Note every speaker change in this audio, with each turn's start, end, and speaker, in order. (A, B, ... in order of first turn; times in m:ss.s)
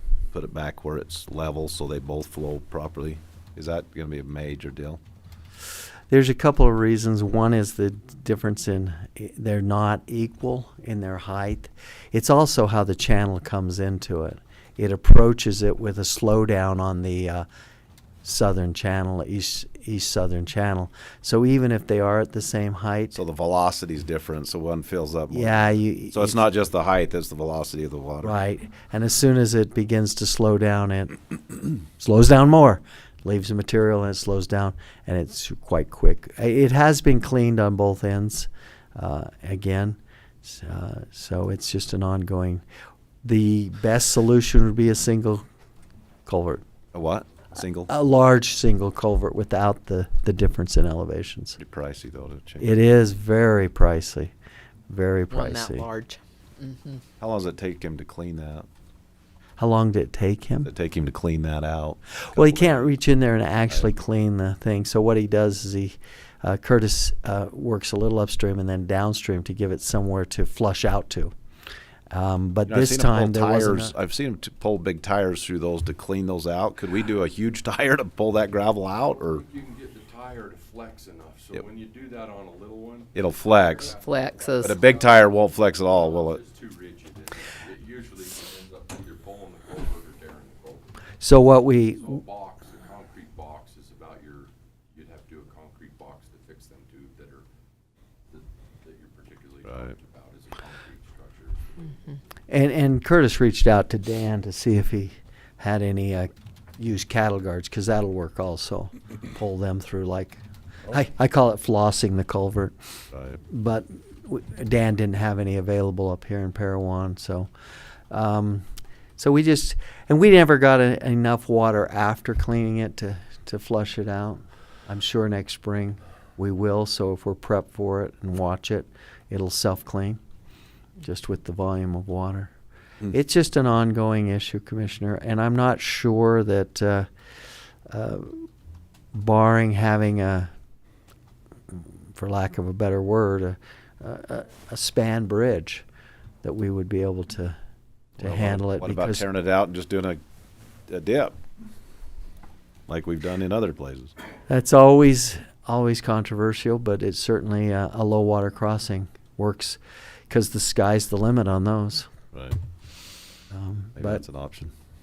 0:00.3-0:05.0 A
0:06.1-0:17.4 B
0:18.2-0:23.2 B
0:23.1-0:28.4 A
0:25.3-0:26.4 B
0:28.2-0:42.6 B
0:43.2-0:45.4 B
0:46.2-0:46.6 B
0:46.9-0:47.9 A
0:47.9-0:51.6 B
0:51.6-0:52.7 A
0:52.6-0:54.3 B
0:54.9-0:55.9 B
0:55.3-0:57.0 C
0:57.2-0:58.7 A
0:59.6-1:00.7 B
1:00.6-1:02.9 A
1:02.2-1:11.3 B
1:12.1-1:13.9 B
1:12.6-1:19.4 A
1:19.3-1:31.0 D
1:23.1-1:23.9 A
1:23.9-1:24.8 C
1:24.6-1:26.4 A
1:31.2-1:32.2 B
1:32.0-1:37.4 D
1:38.3-1:42.2 D
1:39.6-1:39.9 A
1:42.5-1:52.7 B
1:53.1-1:53.4 A
1:53.4-1:57.5 B
1:58.1-1:58.6 B
1:59.2-2:10.2 B
2:11.0-2:12.5 B
2:13.1-2:17.1 B
2:17.9-2:18.5 B
2:19.1-2:20.5 B
2:21.7-2:25.8 B
2:26.4-2:27.5 B
2:28.2-2:29.2 B
2:28.2-2:30.2 A
2:30.9-2:31.4 A
2:32.9-2:34.1 A
2:34.5-2:42.1 B
2:42.3-2:42.6 A
2:43.5-2:44.2 B
2:44.0-2:44.7 A